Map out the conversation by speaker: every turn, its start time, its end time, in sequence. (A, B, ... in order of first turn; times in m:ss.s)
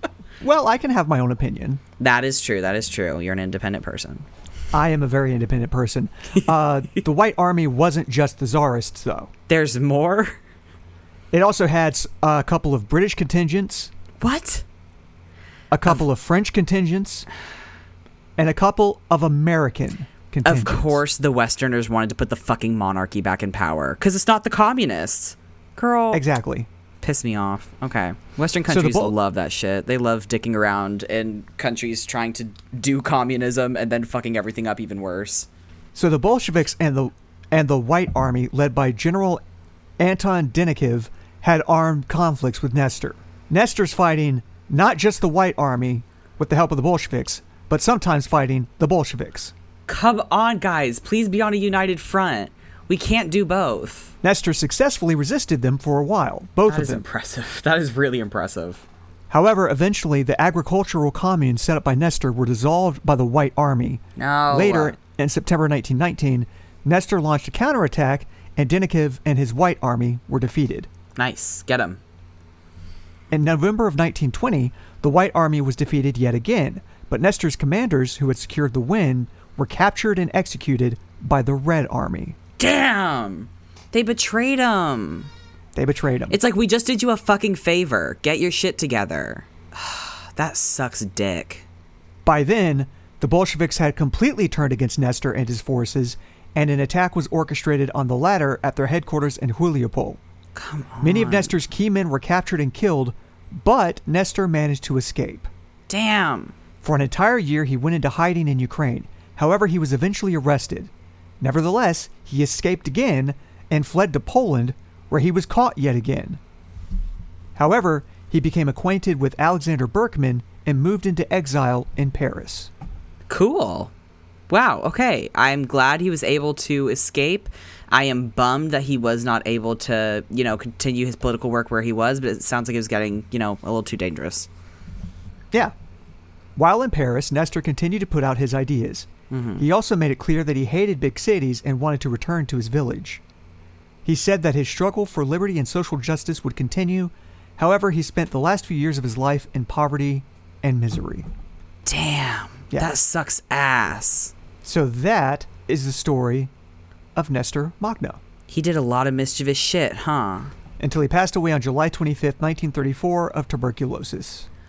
0:00.4-0:01.8 A
0:02.0-0:04.3 B
0:04.7-0:09.3 A
0:09.5-0:10.4 B
0:11.3-0:13.9 A
0:14.2-0:14.6 B
0:15.7-0:17.3 A
0:18.4-0:21.0 A
0:20.4-0:26.2 B
0:26.1-0:26.7 A
0:27.0-0:35.5 B
0:28.7-0:29.1 A
0:36.0-0:39.4 A
0:40.0-0:49.5 A
0:49.9-0:54.1 B
0:54.2-0:57.0 A
0:56.7-0:58.8 B
0:59.3-1:10.9 A
1:04.2-1:05.0 B
1:11.2-1:12.0 B
1:13.3-1:22.4 A
1:22.6-1:25.3 B
1:25.8-1:26.4 A
1:26.3-1:31.6 B
1:32.2-1:40.2 A
1:40.6-1:41.6 B
1:41.0-1:45.5 A
1:45.9-1:46.6 B
1:46.8-1:56.4 A
1:57.6-2:02.7 A
2:03.3-2:03.9 B
2:04.5-2:14.5 B
2:16.6-2:23.2 A
2:19.3-2:19.6 B
2:24.0-2:31.3 A
2:31.8-2:34.3 B
2:34.6-2:36.5 A
2:37.2-2:38.2 A
2:38.5-2:40.5 B
2:40.8-2:44.5 A